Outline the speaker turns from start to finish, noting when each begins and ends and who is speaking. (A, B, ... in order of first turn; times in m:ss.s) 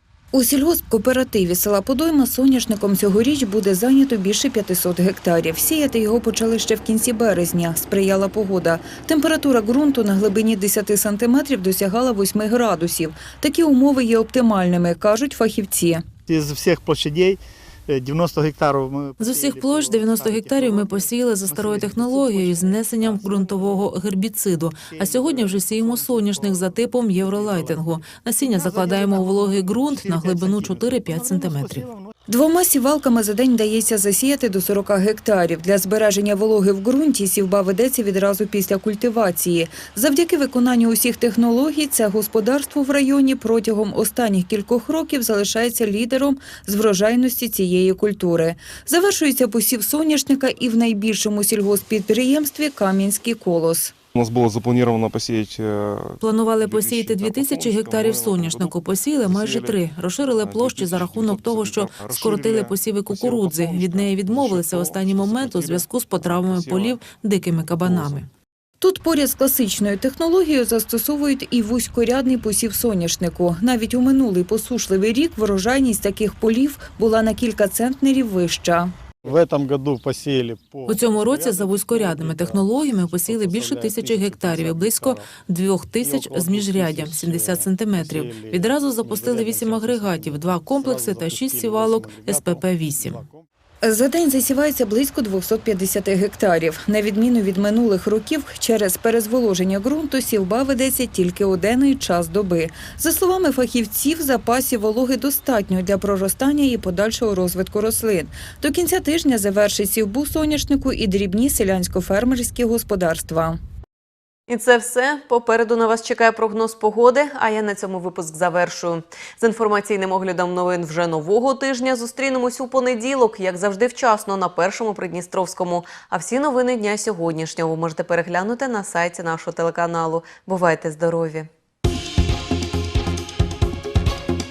0:00.3-0:16.1 A
0:16.3-0:23.8 B
0:19.2-0:31.9 C
0:24.9-0:26.8 B
0:27.3-0:27.8 B
0:28.7-0:32.1 B
0:32.3-0:53.9 A
0:54.1-1:07.0 D
0:56.2-1:08.3 C
1:07.8-1:08.2 D
1:08.8-1:18.9 A
1:19.2-1:25.3 B
1:20.9-1:33.2 C
1:26.0-1:33.4 B
1:33.8-1:53.6 A
1:54.5-2:11.5 E